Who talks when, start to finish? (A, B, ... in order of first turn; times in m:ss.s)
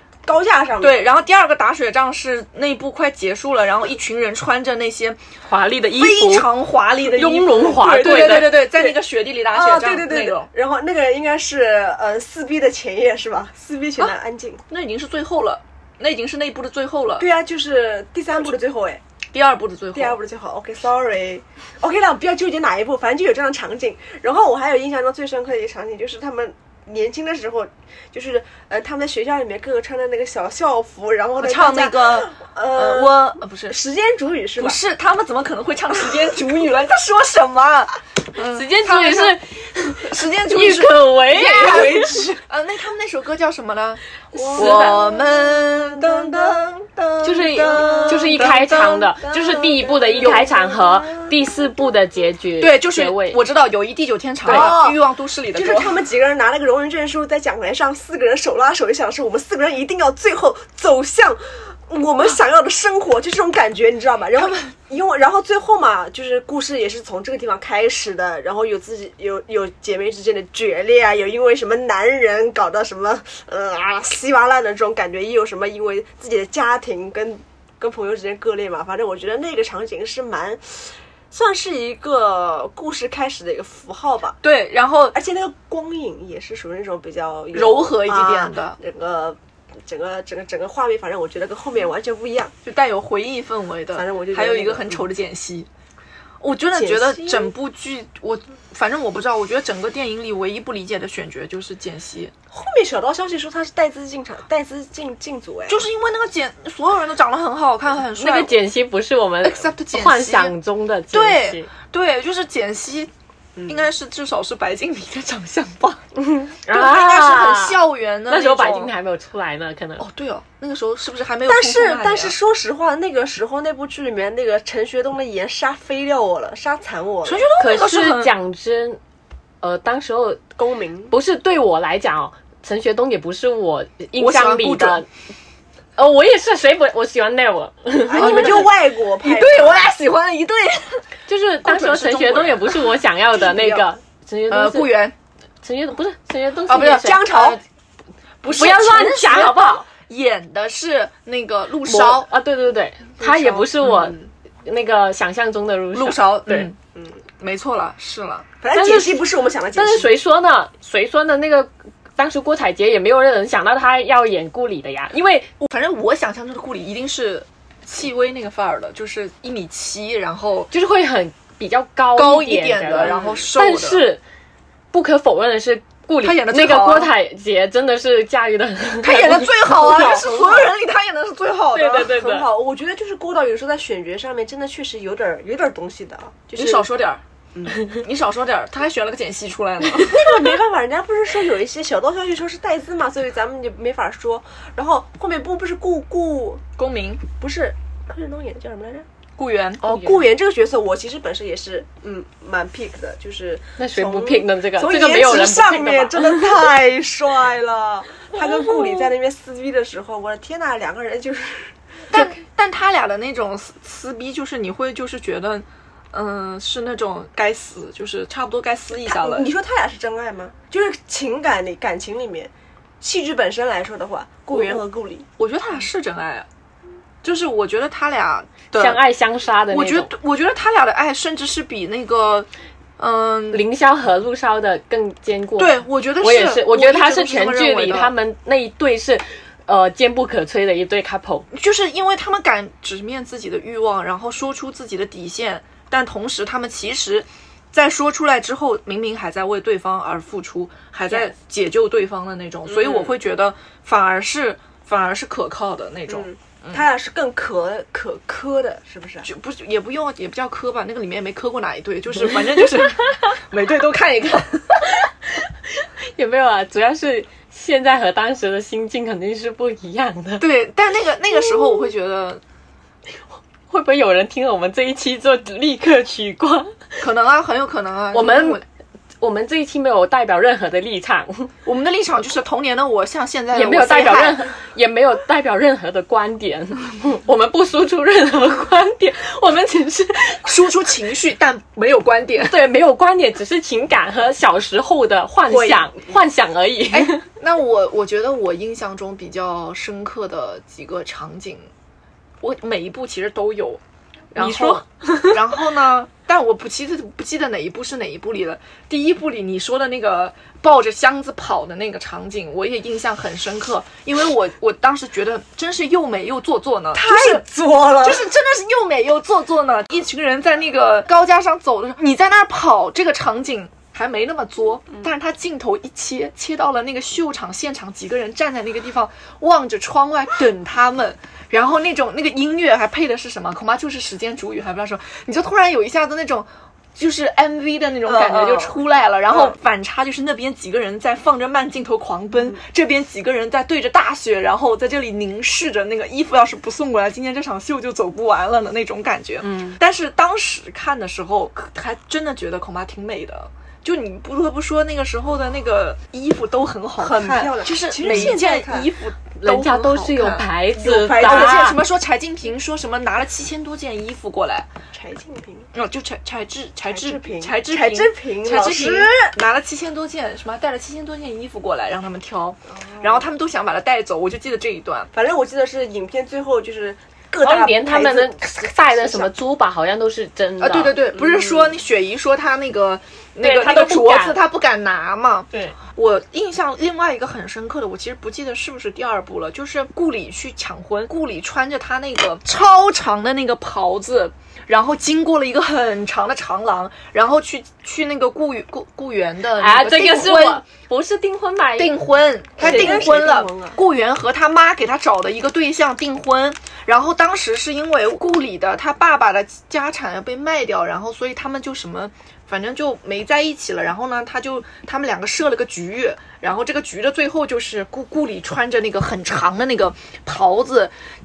0:00.3-0:01.0 A
0:00.8-0:05.2 B
0:05.5-0:06.5 C
0:05.9-0:10.5 B
0:07.0-0:08.5 C
0:07.7-0:14.6 A
0:14.7-0:17.3 B
0:17.2-0:19.0 A
0:19.3-0:20.2 B
0:19.9-0:34.8 A
0:31.4-0:33.8 B
0:34.6-0:39.4 B
0:38.5-0:42.2 C
0:40.0-0:44.0 B
0:41.6-0:42.4 A
0:44.3-0:46.6 A
0:44.5-0:45.0 C
0:44.6-0:49.2 B
0:47.2-0:53.4 C
0:47.6-0:48.4 A
0:49.2-0:51.4 A
0:52.6-0:56.0 B
0:54.4-0:55.0 A
0:54.4-0:54.8 C
0:55.5-1:24.4 A
1:04.4-1:04.7 B
1:24.4-1:25.2 B
1:25.1-1:32.5 A
1:27.5-1:28.8 B
1:32.6-1:35.7 B
1:33.9-1:35.1 A
1:36.4-1:42.3 B
1:36.7-1:37.6 A
1:42.5-1:45.8 A
1:45.7-1:48.5 B
1:48.1-1:51.7 C
1:49.4-1:50.6 B
1:51.1-1:53.1 B
1:53.6-1:53.9 A
1:53.7-1:56.0 B
1:56.2-2:00.0 C
1:56.7-1:58.9 B
2:00.0-2:02.4 B
2:01.5-2:07.4 A
2:07.2-2:08.3 B
2:07.6-2:09.0 C
2:09.6-2:10.4 C
2:10.6-2:11.1 A
2:11.1-2:15.1 C
2:14.2-2:15.0 B
2:16.0-2:18.7 C
2:18.1-2:19.9 A
2:18.2-2:21.0 B
2:21.3-2:24.9 C
2:21.6-2:23.9 B
2:24.5-2:25.1 B
2:25.6-2:27.3 C
2:26.7-2:27.6 B
2:26.9-2:27.6 A
2:28.4-2:32.3 B
2:28.5-2:29.9 C
2:31.8-2:36.7 C
2:33.2-2:34.3 B
2:35.9-2:36.8 B
2:37.4-2:38.5 B
2:38.6-2:40.1 A
2:38.7-2:39.2 C
2:39.8-2:45.5 C
2:45.6-2:50.7 B
2:50.7-2:54.2 C
2:52.1-2:54.1 B
2:53.1-2:53.3 A
2:54.9-3:00.2 C
2:56.2-2:57.1 B
2:59.0-3:02.1 B
2:59.9-3:00.7 A
3:01.7-3:02.4 C
3:02.0-3:06.9 A
3:06.5-3:07.2 B
3:07.9-3:10.2 B
3:10.0-3:16.6 A
3:16.8-3:17.2 B
3:17.4-3:19.1 A
3:19.4-3:19.9 B
3:19.8-3:32.2 A
3:23.8-3:26.5 C
3:32.1-3:39.5 B
3:38.9-3:45.3 A
3:44.5-3:44.8 B
3:45.4-3:46.5 B
3:47.2-3:49.0 B
3:48.7-3:50.1 C
3:49.7-3:53.6 B
3:53.5-4:01.5 C
3:55.6-3:58.1 B
4:01.5-4:16.8 B
4:12.7-4:13.1 A
4:16.1-4:19.3 A
4:19.2-4:24.9 B
4:25.8-4:30.4 C
4:30.4-4:32.4 B
4:33.7-4:36.8 C
4:37.0-4:38.6 B
4:38.1-4:38.6 C
4:39.2-4:41.5 C
4:41.6-4:44.4 B
4:43.5-4:50.4 C
4:50.4-4:52.6 B
4:52.4-4:57.2 C
4:56.9-5:01.7 B
5:02.4-5:03.8 B
5:04.3-5:17.4 B
5:04.4-5:05.4 C
5:16.9-5:18.3 A
5:18.0-6:00.4 B
5:38.0-5:38.8 A
5:49.4-5:49.8 A
5:57.0-5:58.9 A
5:59.4-6:01.8 C
6:00.8-6:01.6 A
6:01.1-6:04.7 B
6:04.9-6:05.7 A
6:05.7-6:15.1 B
6:06.9-6:09.3 A
6:12.7-6:13.2 A
6:15.1-6:19.3 A
6:17.4-6:21.0 C
6:20.6-6:40.6 B
6:21.2-6:21.7 A
6:23.4-6:24.4 C
6:39.6-6:41.9 C
6:41.8-7:00.9 B
6:42.6-6:43.8 A